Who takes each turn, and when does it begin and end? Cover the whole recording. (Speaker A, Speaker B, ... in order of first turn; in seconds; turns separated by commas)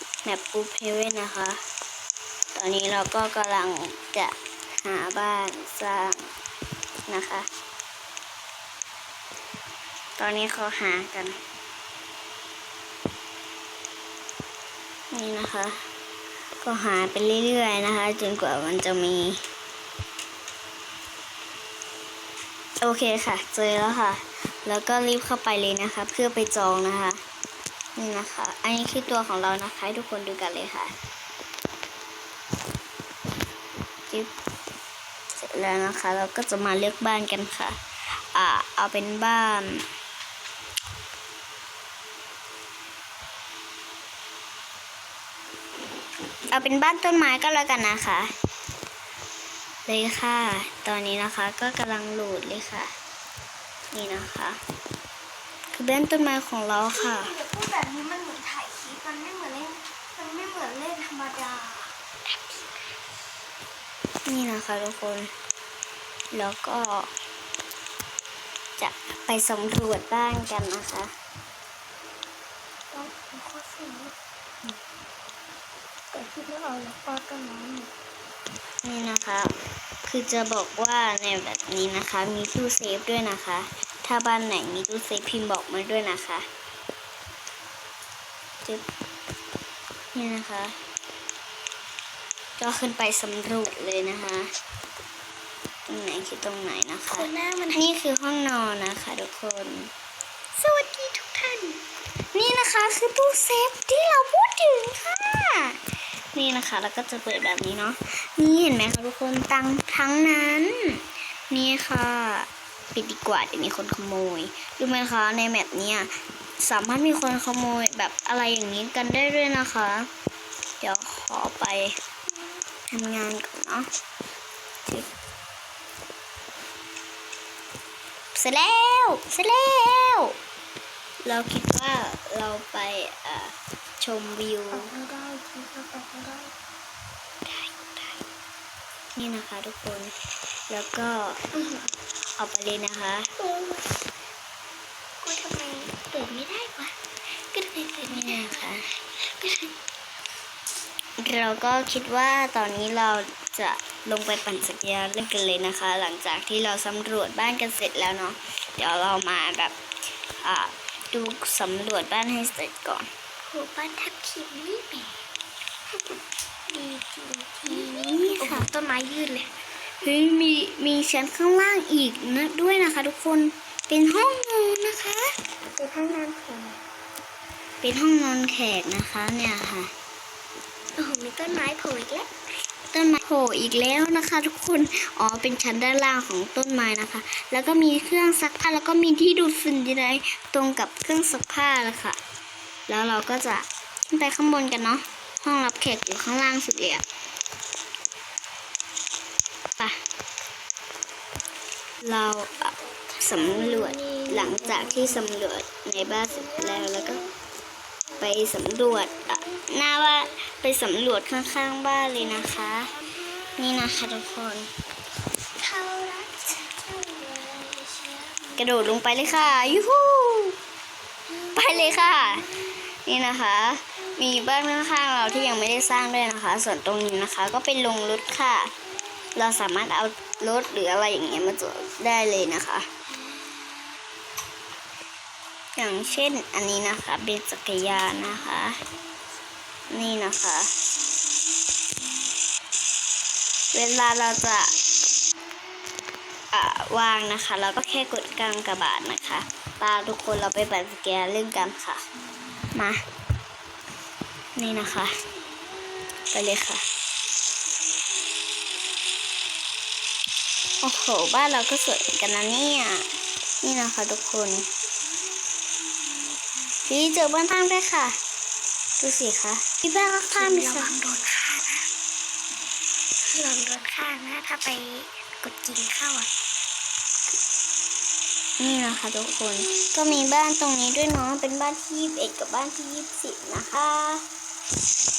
Speaker A: 0.2-1.6, Speaker A: 2.5-6.3, Speaker A: 7.1-7.5, Speaker A: 10.2-11.4, Speaker A: 15.1-15.8, Speaker A: 16.6-19.4, Speaker A: 22.8-27.2, Speaker A: 28.0-30.9, Speaker A: 35.4-37.8, Speaker A: 38.3-39.8, Speaker A: 46.5-48.3, Speaker A: 49.9-52.9, Speaker A: 53.9-54.6, Speaker A: 55.7-57.4, Speaker B: 56.9-62.8, Speaker A: 64.3-65.3, Speaker A: 66.3-67.1, Speaker A: 68.8-71.1, Speaker B: 72.9-74.2, Speaker B: 76.1-77.9, Speaker A: 78.8-79.5, Speaker A: 80.1-86.4, Speaker A: 90.2-90.7, Speaker A: 92.6-94.5, Speaker A: 95.9-99.9, Speaker B: 97.1-97.8, Speaker B: 100.6-101.8, Speaker A: 102.3-105.8, Speaker A: 106.3-110.7, Speaker A: 111.5-116.1, Speaker A: 116.6-120.1, Speaker A: 120.8-121.9, Speaker A: 122.9-123.9, Speaker A: 128.3-130.3, Speaker A: 131.2-134.9, Speaker B: 134.7-136.5, Speaker A: 137.5-138.2, Speaker A: 139.2-140.1, Speaker A: 140.7-141.4, Speaker B: 141.5-141.9, Speaker A: 142.4-143.3, Speaker B: 143.4-143.9, Speaker B: 145.2-149.7, Speaker A: 148.1-148.8, Speaker A: 151.2-159.8, Speaker A: 160.4-163.1, Speaker B: 163.5-165.2, Speaker B: 165.9-169.5, Speaker A: 167.7-168.7, Speaker A: 170.0-175.3, Speaker B: 175.8-176.8, Speaker A: 177.8-179.9, Speaker B: 181.0-182.3, Speaker A: 182.9-192.2, Speaker A: 192.9-197.0, Speaker A: 202.0-207.2, Speaker B: 202.8-205.3, Speaker B: 206.3-207.3, Speaker A: 208.2-212.9, Speaker A: 213.6-214.7, Speaker B: 215.6-218.7, Speaker A: 218.6-220.6, Speaker B: 221.4-222.5, Speaker A: 221.5-222.5, Speaker A: 223.1-228.7, Speaker A: 229.4-232.9, Speaker B: 233.1-233.9, Speaker A: 235.8-238.8, Speaker B: 238.1-238.7, Speaker A: 239.9-240.7, Speaker B: 241.1-241.9, Speaker A: 243.7-244.7, Speaker A: 246.5-252.0, Speaker A: 254.6-255.1, Speaker A: 256.3-256.8, Speaker A: 260.8-263.0, Speaker A: 263.6-264.7, Speaker A: 266.9-268.2, Speaker A: 269.0-270.9, Speaker B: 270.3-271.9, Speaker B: 273.2-276.3, Speaker A: 278.6-284.2